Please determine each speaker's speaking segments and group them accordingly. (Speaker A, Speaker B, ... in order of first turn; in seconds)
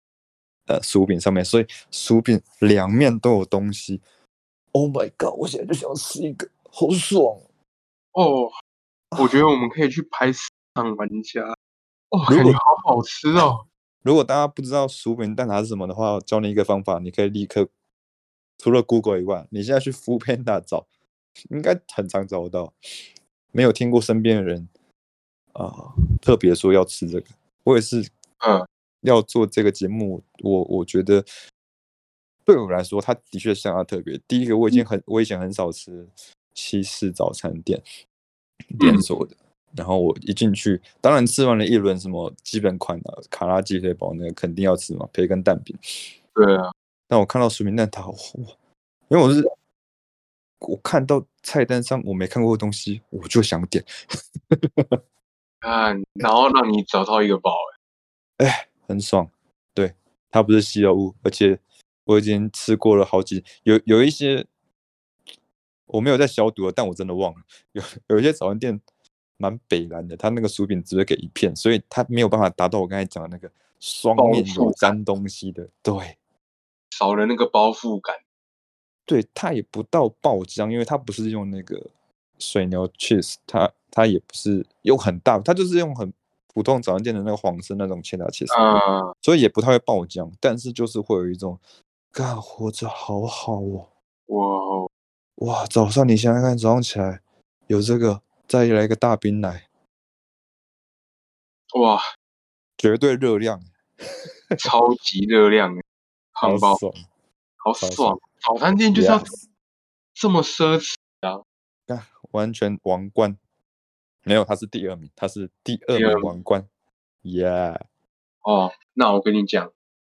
Speaker A: 0.7-4.0, 4.7-7.4, 9.1-9.4, 12.3-12.6, 14.0-17.7, 18.6-20.9, 21.5-22.7, 23.5-24.7, 25.5-28.1, 29.0-31.3, 32.5-37.8, 38.7-45.8, 47.1-48.5, 49.1-49.5, 50.6-53.9, 54.5-55.0, 58.4-64.5, 65.9-68.8, 69.4-76.2, 79.1-91.6, 92.1-93.9, 95.4-99.7, 102.8-104.7, 106.4-107.0, 107.8-108.2, 108.9-109.4, 111.9-113.4, 114.2-116.7, 117.2-117.8
Speaker B: 8.1-8.5, 9.2-11.6, 12.1-13.6, 28.4-28.7, 38.8-39.0, 46.3-46.7, 55.6-57.7, 74.2-74.9, 76.9-78.2, 88.5-89.1, 94.3-94.9, 101.7-102.0, 104.6-105.8, 106.3-106.8, 107.6-109.3, 110.2-111.4, 115.9-116.3, 118.4-119.7